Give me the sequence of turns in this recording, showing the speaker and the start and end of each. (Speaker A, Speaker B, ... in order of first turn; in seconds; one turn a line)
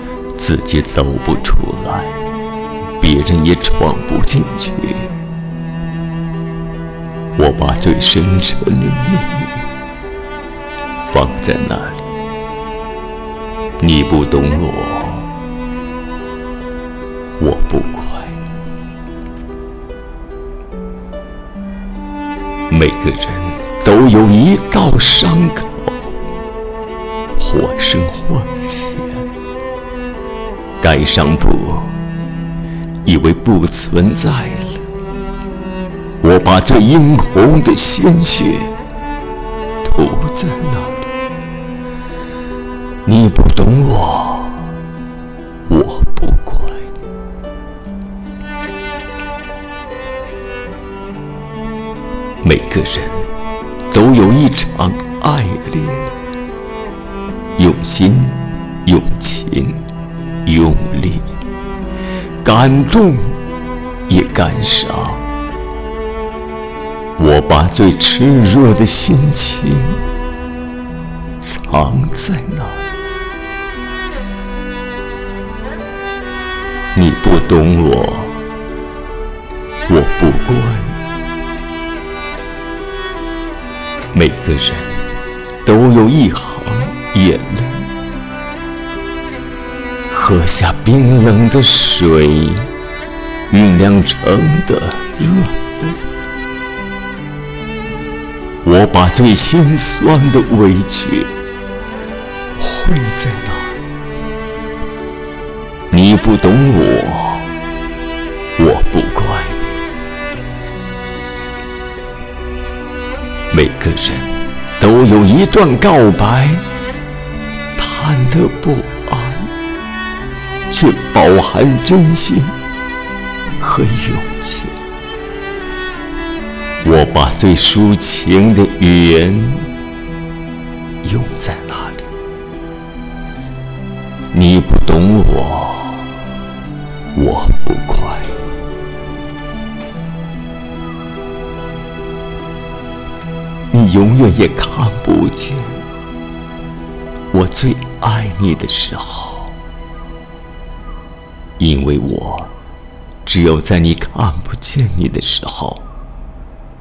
Speaker A: 0.4-2.2
Speaker A: 3.0-5.1
Speaker A: 7.4-9.7
Speaker A: 11.0-12.1
Speaker A: 13.8-15.3
Speaker A: 17.4-18.4
Speaker A: 22.7-26.2
Speaker A: 27.4-29.3
Speaker A: 30.8-32.0
Speaker A: 33.0-34.8
Speaker A: 36.2-38.7
Speaker A: 39.8-41.1
Speaker A: 43.0-44.8
Speaker A: 45.7-47.0
Speaker A: 52.4-53.3
Speaker A: 53.9-56.1
Speaker A: 57.6-59.9
Speaker A: 60.5-61.3
Speaker A: 62.4-63.4
Speaker A: 64.1-65.2
Speaker A: 67.2-70.0
Speaker A: 71.4-72.8
Speaker A: 76.9-78.4
Speaker A: 79.9-81.0
Speaker A: 84.1-85.0
Speaker A: 85.6-87.9
Speaker A: 90.1-92.7
Speaker A: 93.5-96.0
Speaker A: 98.6-101.3
Speaker A: 102.6-103.8
Speaker A: 105.9-107.5
Speaker A: 108.6-109.7
Speaker A: 113.5-116.7
Speaker A: 117.8-119.5
Speaker A: 120.7-122.6
Speaker A: 123.6-124.8
Speaker A: 126.8-129.7
Speaker A: 131.0-132.1
Speaker A: 134.3-136.1
Speaker A: 137.2-138.4
Speaker A: 143.7-145.8
Speaker A: 147.3-149.6
Speaker A: 151.6-152.5
Speaker A: 153.2-155.8